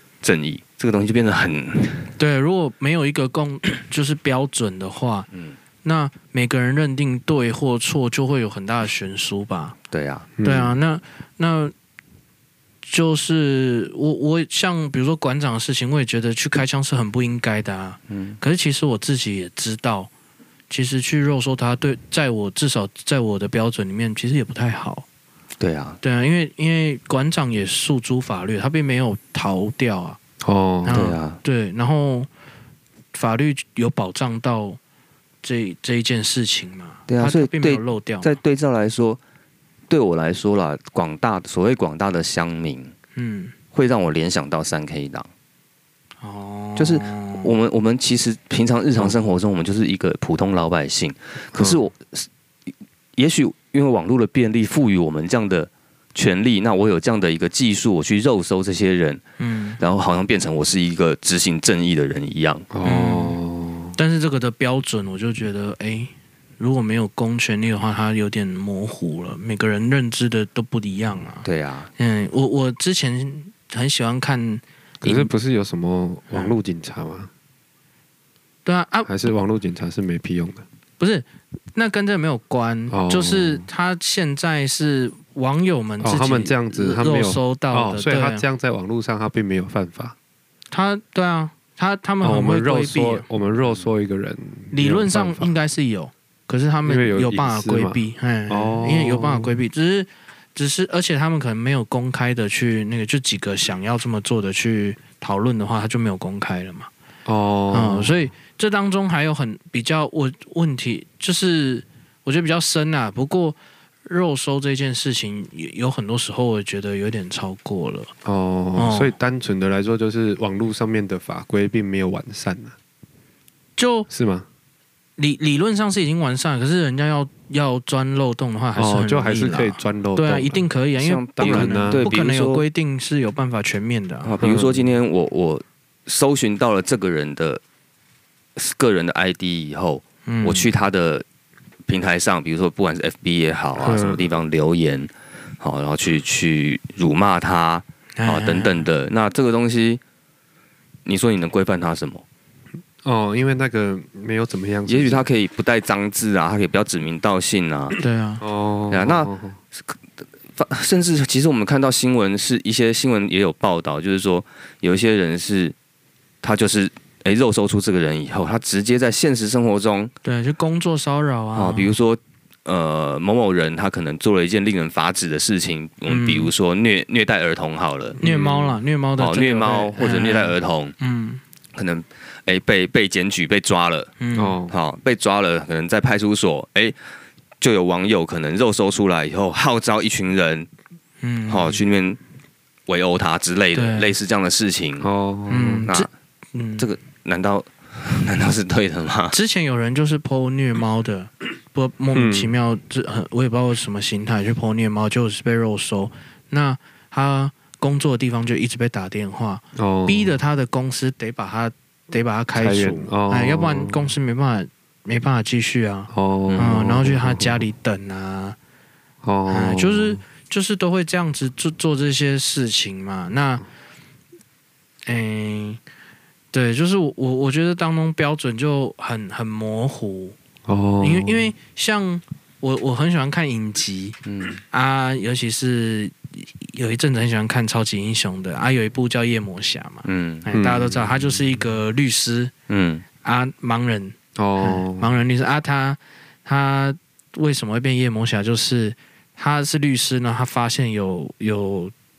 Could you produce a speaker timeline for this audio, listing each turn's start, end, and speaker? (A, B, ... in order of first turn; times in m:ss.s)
0:00.2-0:02.1 A
0:02.2-0:05.3 B
0:05.3-0:05.6 A
0:05.8-0:09.8 B
0:09.9-0:10.3 A
0:10.4-0:10.8 C
0:10.4-0:11.7 B
0:12.8-0:20.1 B
0:18.1-0:18.4 A
0:20.7-0:25.0 B
0:25.6-0:26.0 A
0:26.0-0:30.2 B
0:30.4-0:31.1 C
0:30.8-0:32.3 B
0:30.9-0:31.4 A
0:33.1-0:34.8 B
0:35.4-0:38.4 B
0:37.1-0:39.2 A
0:39.9-0:42.9 A
0:43.2-0:43.5 B
0:43.7-0:45.3 A
0:46.2-0:47.6 B
0:46.8-0:52.3 A
0:51.5-0:51.8 C
0:53.2-0:59.2 A
0:59.4-0:59.8 B
0:59.8-1:02.7 A
1:02.7-1:04.0 C
1:02.8-1:03.4 B
1:04.0-1:11.5 B
1:11.4-1:11.9 A
1:12.0-1:15.3 B
1:15.0-1:17.3 C
1:18.6-1:19.1 B
1:19.0-1:20.6 C
1:21.0-1:28.4 B
1:22.9-1:23.6 C
1:26.0-1:30.2 C
1:30.7-1:33.3 B
1:32.2-1:35.5 C
1:34.7-1:46.9 B
1:36.9-1:39.6 C
1:47.3-1:48.2 C
1:47.7-1:58.1 B
1:58.2-2:02.8 C
1:58.8-1:59.2 B
2:03.8-2:04.1 B
2:04.1-2:04.5 C
2:05.2-2:14.4 B
2:08.8-2:10.6 C
2:11.0-2:12.7 A
2:11.4-2:12.0 C
2:14.2-2:17.6 A
2:14.4-2:14.9 C
2:18.6-2:21.2 A
2:20.3-2:20.7 B
2:21.9-2:25.1 A
2:23.8-2:24.2 C
2:23.8-2:24.2 B
2:25.6-2:30.0 A
2:28.2-2:28.9 B
2:31.1-2:32.2 A
2:33.0-2:35.3 C
2:34.9-2:38.0 A
2:38.0-2:38.4 B
2:38.4-2:39.6 C
2:38.9-2:39.3 A
2:40.6-2:45.8 A
2:46.4-2:50.1 A
2:50.2-2:51.9 B
2:51.6-2:58.2 A
2:56.1-2:56.5 B
2:58.2-2:58.8 C
2:58.2-3:01.4 B
2:59.2-3:01.0 A
3:01.8-3:04.1 A
3:04.2-3:04.6 B
3:04.4-3:04.7 C
3:04.7-3:07.0 A
3:07.6-3:10.7 A
3:11.2-3:11.8 B
3:11.5-3:12.2 A
3:12.9-3:15.1 A
3:13.7-3:14.1 B
3:15.0-3:15.9 C
3:15.5-3:16.9 B
3:16.8-3:19.4 A
3:19.3-3:38.6 B
3:22.1-3:22.5 C
3:29.8-3:30.4 C
3:32.6-3:34.1 C
3:36.1-3:37.6 C
3:39.2-3:40.2 C
3:39.5-3:43.6 B
3:45.1-3:45.8 B
3:46.5-3:50.4 B
3:50.7-3:51.5 C
3:51.0-3:54.2 B
3:54.3-3:54.6 A
3:54.7-4:02.5 B
4:00.0-4:00.5 A
4:00.5-4:01.3 C
4:02.7-4:03.0 A
4:03.2-4:11.9 B
4:04.4-4:05.1 C